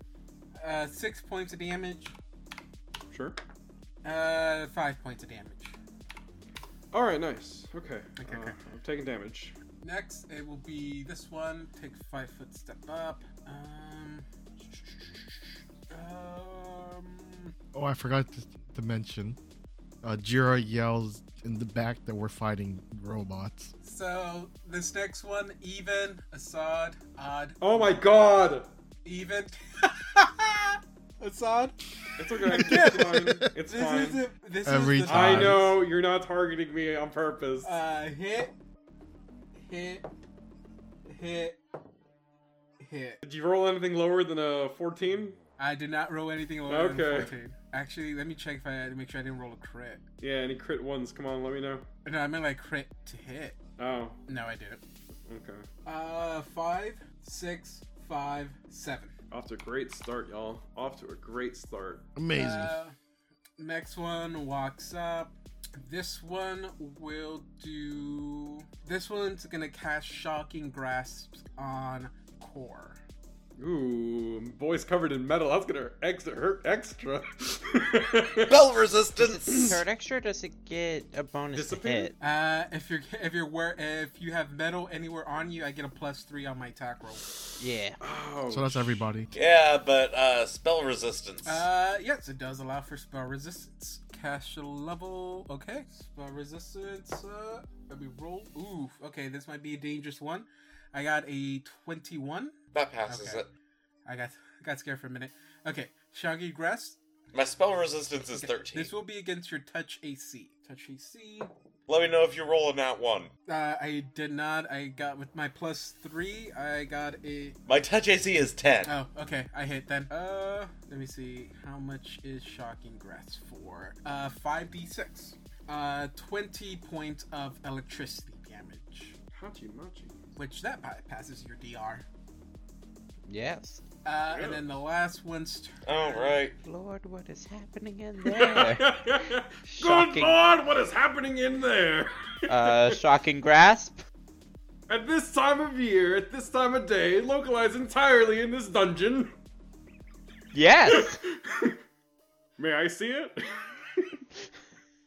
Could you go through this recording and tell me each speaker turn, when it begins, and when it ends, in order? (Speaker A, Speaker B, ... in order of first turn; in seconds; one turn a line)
Speaker A: 0.6-2.1
Speaker B: 3.1-3.4
Speaker A: 4.0-5.8
Speaker B: 6.9-9.6
Speaker A: 8.2-8.6
Speaker A: 9.8-14.3
Speaker A: 15.9-17.5
Speaker C: 17.7-19.4
Speaker C: 20.0-23.7
Speaker A: 23.8-28.0
Speaker B: 27.6-28.7
Speaker A: 29.1-31.8
Speaker B: 32.2-34.3
Speaker A: 32.4-35.8
Speaker C: 32.6-33.5
Speaker C: 34.6-35.7
Speaker B: 35.1-37.7
Speaker A: 37.6-38.5
Speaker A: 39.6-40.1
Speaker A: 41.1-41.6
Speaker A: 42.8-43.2
Speaker B: 43.2-45.4
Speaker A: 45.6-50.0
Speaker B: 46.7-47.3
Speaker B: 50.2-51.9
Speaker A: 52.0-53.6
Speaker B: 53.8-54.2
Speaker A: 54.3-54.8
Speaker B: 55.3-55.7
Speaker A: 55.9-59.1
Speaker B: 59.3-62.0
Speaker C: 62.2-62.7
Speaker A: 62.3-63.0
Speaker A: 63.6-73.0
Speaker B: 73.6-78.6
Speaker D: 78.5-79.8
Speaker E: 79.2-82.1
Speaker B: 79.5-79.8
Speaker B: 81.5-82.1
Speaker A: 82.2-87.2
Speaker E: 87.6-88.0
Speaker B: 88.0-88.9
Speaker C: 88.5-89.3
Speaker D: 89.3-91.7
Speaker A: 91.5-102.5
Speaker D: 102.7-103.5
Speaker A: 103.1-103.4
Speaker A: 104.1-107.0
Speaker D: 107.3-108.9
Speaker A: 108.4-111.5
Speaker D: 111.9-113.3
Speaker A: 113.5-117.6
Speaker D: 117.7-119.0
Speaker A: 118.8-129.2
Speaker B: 129.3-130.2
Speaker A: 130.4-132.1
Speaker E: 133.3-133.8
Speaker A: 134.1-136.5
Speaker D: 134.3-134.6
Speaker D: 135.9-136.6
Speaker E: 136.6-138.9
Speaker B: 138.2-143.0
Speaker E: 139.7-140.4
Speaker E: 142.5-144.0
Speaker B: 144.9-149.3
Speaker E: 150.5-151.2
Speaker B: 150.9-151.8
Speaker B: 152.6-154.2